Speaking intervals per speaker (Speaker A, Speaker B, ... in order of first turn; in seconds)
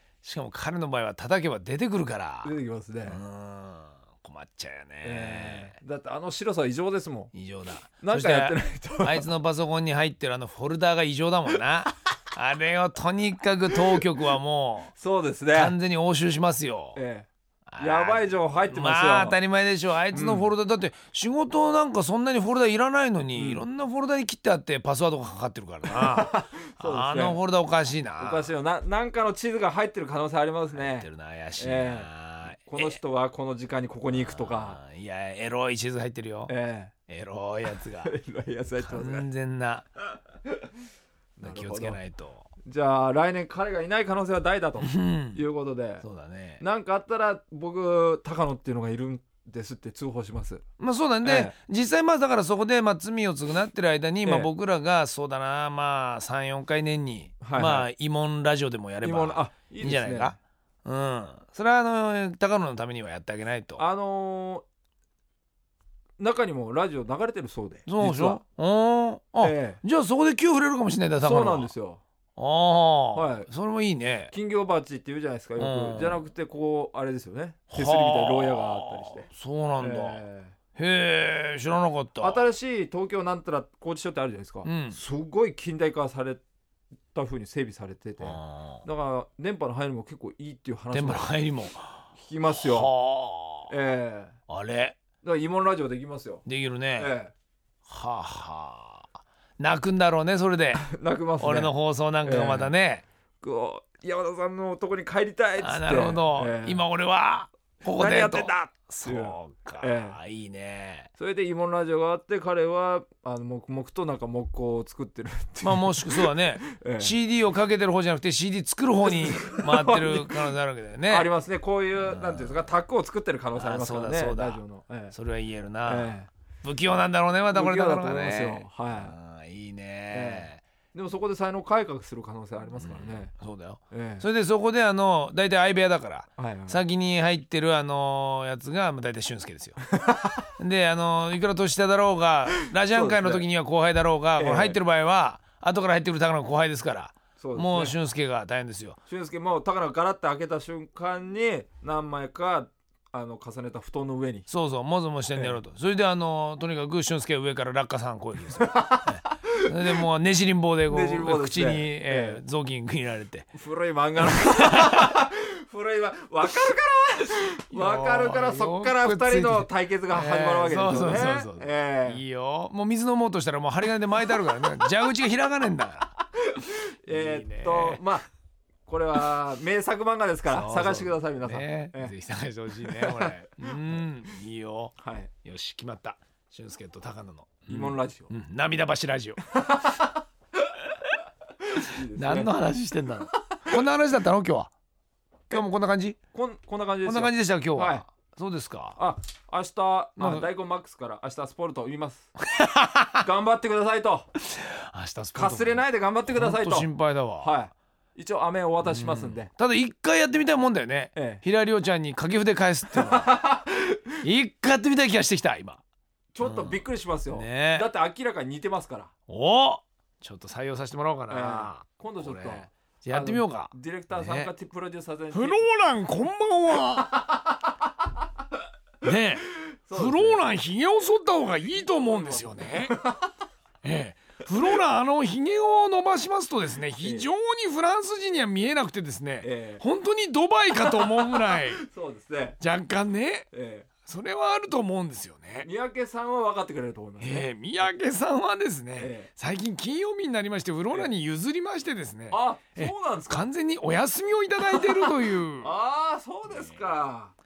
Speaker A: 0.2-2.5, 3.1-5.8, 7.3-14.9, 15.5-17.0, 17.7-28.5, 30.7-33.0, 34.1-36.5, 37.1-38.1, 38.8-39.9, 41.4-42.5, 44.8-45.4, 46.0-46.6, 50.8-63.8, 67.8-71.7, 72.3-74.3, 75.6-76.2, 77.7-80.2, 80.8-82.4, 84.6-85.0, 88.2-88.8, 90.9-93.7, 94.5-95.0, 96.4-97.1, 97.8-99.1, 99.6-100.8, 101.4-103.0, 105.6-111.1, 115.6-121.3, 122.0-122.6, 123.5-130.6, 132.8-139.8, 140.6-149.0, 154.5-163.5, 164.3-165.1, 167.7-176.1, 177.1-178.0, 180.5-189.4, 191.8-194.7, 195.5-196.2, 197.0-199.0, 200.2-200.5, 202.5-203.2, 204.4-207.5, 208.8-213.3, 214.2-215.8, 216.4-217.9, 219.3-224.5, 225.3-227.2, 229.0-233.0, 233.8-241.8, 242.6-243.5, 244.0-245.7, 247.2-255.7, 256.5-256.8
Speaker B: 2.4-3.2, 5.0-7.3, 8.0-9.3, 15.0-15.8, 16.9-19.4, 20.1-20.5, 23.4-23.6, 25.9-27.4, 28.2-34.8, 36.5-36.9, 37.6-39.3, 41.4-42.0, 42.6-46.0, 46.6-50.6, 51.2-51.5, 54.2-54.5, 57.4-57.9, 59.0-60.4, 63.8-64.6, 66.2-68.4, 69.4-69.8, 71.2-72.0, 73.1-73.5, 74.3-79.3, 79.8-80.5, 82.2-86.4, 87.1-91.4, 92.1-92.9, 93.7-94.3, 95.2-97.3, 100.8-102.7, 103.4-106.8, 107.9-110.2, 111.2-117.2, 119.0-120.5, 121.1-125.1, 125.8-126.3, 127.5-129.1, 130.1-133.3, 133.9-134.3, 136.4-136.8, 140.0-140.4, 142.8-143.4, 144.4-144.8, 147.4-147.9, 149.1-154.5, 158.6-160.0, 160.8-162.4, 163.5-172.2, 176.5-178.3, 178.8-182.1, 182.8-184.0, 185.0-185.3, 187.7-188.3, 189.5-190.2, 191.7-192.5, 196.3-198.0, 198.9-202.3, 203.2-204.3, 205.3-206.9, 207.4-209.5, 211.1-211.4, 212.9-214.0, 216.3-219.1, 221.3-225.6, 229.7-230.4, 231.8-233.2, 237.0-237.3, 239.4-239.8, 240.7-242.6, 243.5-243.9, 245.6-247.5, 249.0-249.3, 252.3-253.5, 254.6-257.3